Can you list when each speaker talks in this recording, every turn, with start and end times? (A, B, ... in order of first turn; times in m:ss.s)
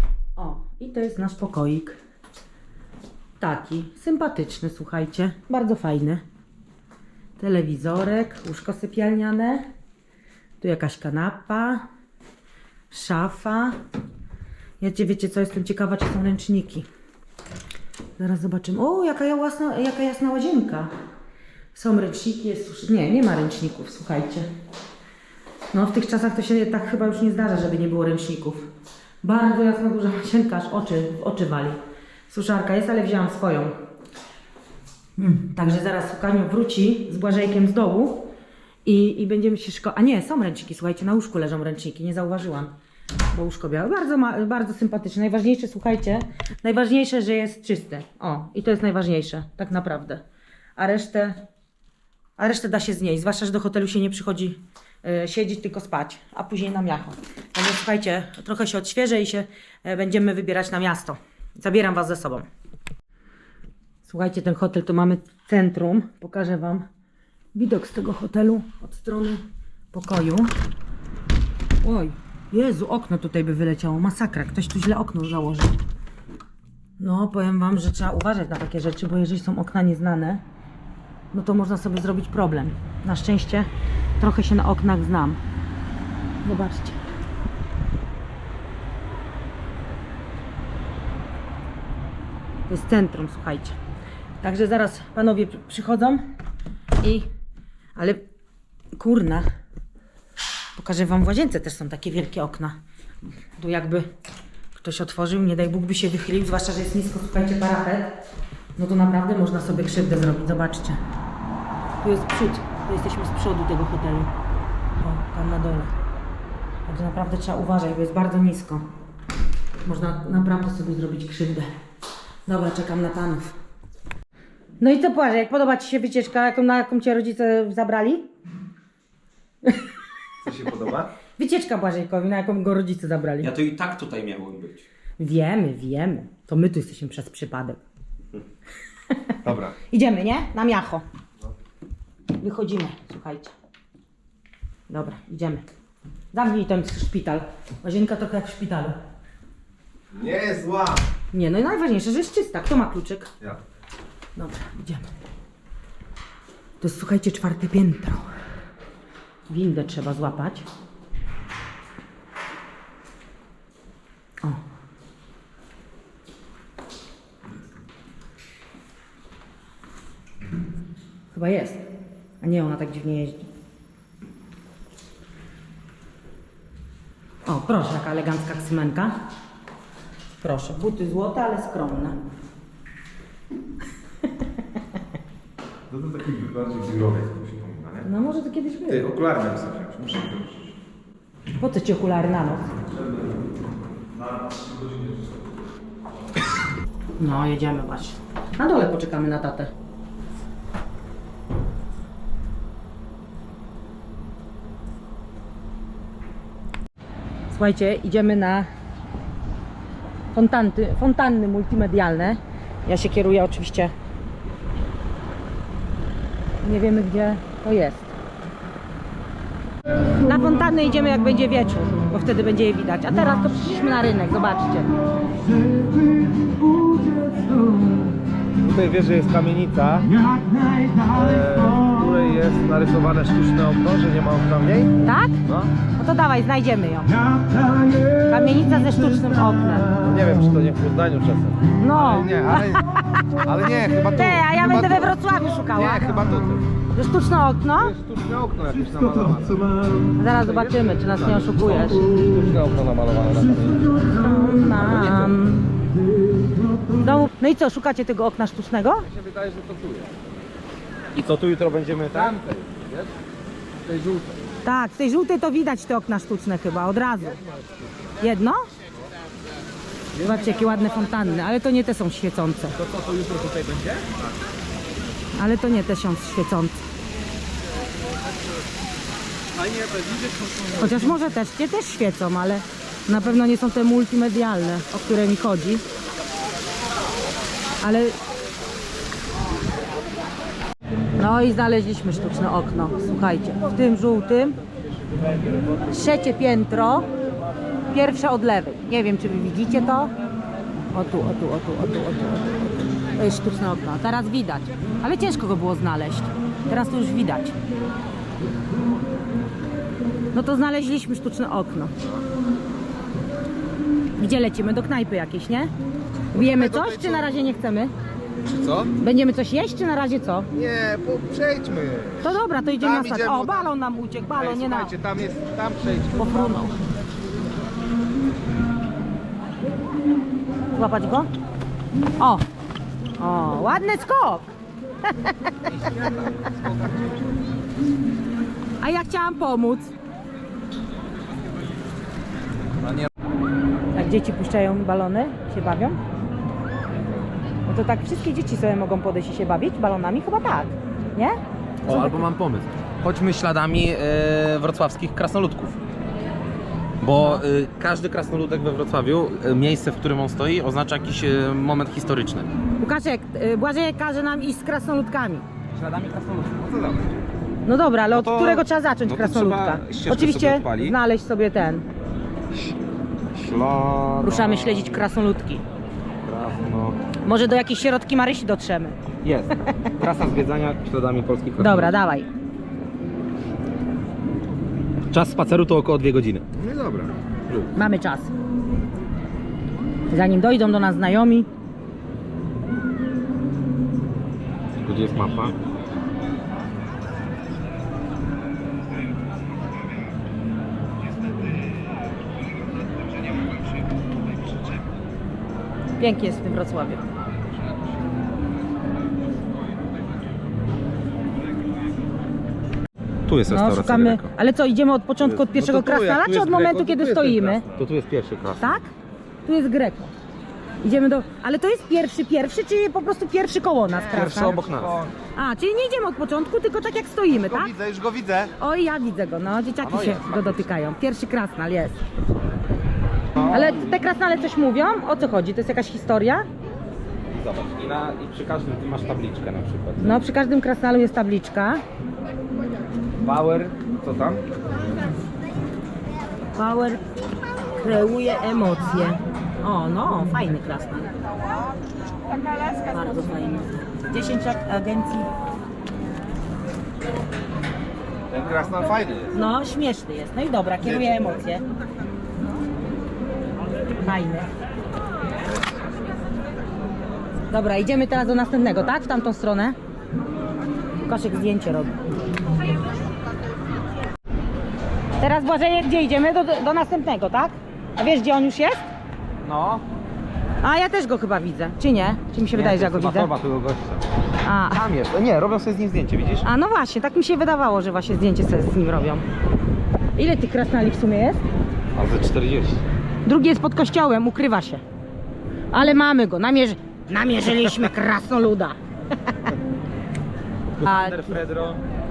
0:00.4-0:02.0 A
0:03.4-0:06.2 A
0:07.4-0:09.7 A
0:10.6-0:11.9 A
0:12.9-0:13.8 A
0:14.8-0:16.9 A
0:18.2-0:20.9 A
0:21.7-0:24.5 A
0:25.7-0:28.7 A
0:29.2-0:31.8 A
0:32.3-0:33.8 A
0:35.2-0:38.3 A
0:38.8-0:42.8 A
0:43.3-0:50.2 A
0:50.8-0:51.5 A
0:52.4-1:02.5 A
1:04.1-1:06.9 A
1:07.6-1:10.5 A
1:11.8-1:15.8 A
1:17.0-1:20.4 A
1:21.3-1:23.7 A
1:24.2-1:25.4 A
1:26.4-1:27.1 A
1:32.7-1:33.8 A
1:34.4-1:36.3 A
1:37.0-1:37.3 A
1:38.0-1:38.2 A
1:39.0-1:39.5 A
1:40.8-1:42.8 A
1:43.6-1:44.1 A
1:44.8-1:48.2 A
1:48.8-1:51.0 A
1:52.0-1:54.3 A
1:55.0-1:55.9 A
1:56.9-1:58.8 A
1:59.8-2:01.7 A
2:02.5-2:03.6 A
2:04.8-2:08.3 A
2:10.4-2:11.1 B
2:11.4-2:13.5 A
2:13.4-2:14.9 C
2:15.2-2:17.8 A
2:19.4-2:19.8 B
2:19.9-2:21.0 A
2:22.4-2:23.5 A
2:24.9-2:25.7 A
2:26.3-2:29.0 A
2:30.1-2:31.0 B
2:31.3-2:33.3 A
2:34.4-2:35.1 A
2:36.8-2:38.3 A
2:39.5-2:40.7 A
2:51.3-2:51.8 A
2:52.4-2:53.5 A
2:57.5-2:59.2 A
3:00.4-3:02.2 A
3:05.9-3:08.1 B
3:08.0-3:09.1 A
3:08.9-3:10.7 B
3:11.6-3:12.7 A
3:12.9-3:13.3 B
3:14.1-3:15.4 B
3:17.2-3:19.7 A
3:27.5-3:28.7 A
3:30.3-3:33.9 A
3:36.6-3:38.1 A
3:40.2-3:44.9 A
3:45.7-3:47.7 B
3:48.6-3:50.2 B
3:51.0-3:55.7 B
3:55.0-3:55.4 A
3:56.0-3:57.2 A
3:58.2-3:59.9 A
3:59.9-4:05.1 B
4:01.8-4:02.8 A
4:04.2-4:06.2 A
4:05.7-4:06.6 B
4:06.9-4:07.9 A
4:07.8-4:09.8 B
4:10.2-4:12.1 A
4:10.3-4:14.0 B
4:14.1-4:15.7 A
4:15.0-4:15.3 B
4:17.0-4:19.1 A
4:19.0-4:20.2 B
4:21.1-4:22.4 C
4:22.1-4:23.1 B
4:23.8-4:24.4 B
4:24.6-4:27.4 A
4:28.2-4:28.7 A
4:30.2-4:32.8 A
4:32.9-4:34.0 B
4:33.2-4:33.6 C
4:35.4-4:36.8 A
4:40.8-4:45.8 A
4:47.8-4:48.2 A
4:51.2-4:54.6 A
4:55.9-4:57.1 A
4:57.9-5:00.1 A
5:00.9-5:02.5 A
5:03.2-5:07.6 A
5:10.3-5:11.9 A
5:14.2-5:15.7 A
5:16.3-5:17.9 A
5:16.3-5:17.3 B
5:18.5-5:18.9 B
5:19.0-5:20.5 A
5:20.5-5:23.7 B
5:22.2-5:24.9 A
5:24.4-5:26.6 B
5:26.2-5:26.8 A
5:30.8-5:31.3 A
5:32.2-5:32.5 A
5:33.2-5:34.5 A
5:35.1-5:35.4 A
5:35.9-5:37.2 B
5:38.8-5:39.9 A
5:44.0-5:46.0 A
5:47.7-5:52.1 A
5:51.9-5:55.8 C
5:51.9-5:52.7 B
5:57.0-6:02.5 C
5:57.2-5:57.4 A
6:02.8-6:05.5 A
6:05.8-6:07.2 B
6:07.7-6:11.9 A
6:08.1-6:11.0 C
6:13.3-6:15.0 C
6:14.2-6:15.6 A
6:16.2-6:17.0 C
6:17.2-6:19.0 A
6:19.2-6:22.0 C
6:21.6-6:22.3 A
6:25.1-6:26.4 C
6:26.6-6:27.2 B
6:27.8-6:28.3 A
6:30.1-6:31.5 A
6:34.8-6:35.6 C
6:46.0-6:47.0 A
6:53.3-6:54.3 C
6:53.5-6:57.6 A
6:55.4-6:57.7 B
6:57.8-6:58.8 C
6:58.6-6:58.9 A
6:59.4-7:00.1 A
7:00.8-7:04.6 A
7:04.1-7:05.0 C
7:04.5-7:05.2 B
7:05.4-7:07.7 A
7:07.4-7:08.5 B
7:08.6-7:12.0 A
7:09.8-7:10.8 C
7:13.4-7:13.8 C
7:13.4-7:16.5 A
7:17.3-7:20.2 C
7:20.0-7:21.8 A
7:23.2-7:24.4 B
7:26.6-7:27.0 A
7:27.8-7:31.1 A
7:32.8-7:35.3 A
7:38.3-7:39.4 B
7:39.3-7:41.6 A
7:40.8-7:41.2 B
7:44.0-7:44.5 A
7:47.5-7:49.8 A
7:51.0-7:52.0 A
7:55.2-7:58.9 A
7:59.4-7:59.8 C
8:00.6-8:03.3 A
8:02.5-8:04.0 C
8:04.4-8:04.8 A
8:04.7-8:06.5 C
8:06.4-8:09.2 A
8:10.2-8:11.4 A
8:12.0-8:12.8 C
8:13.2-8:14.8 A
8:15.7-8:18.8 A
8:20.8-8:21.8 C
8:20.8-8:21.4 A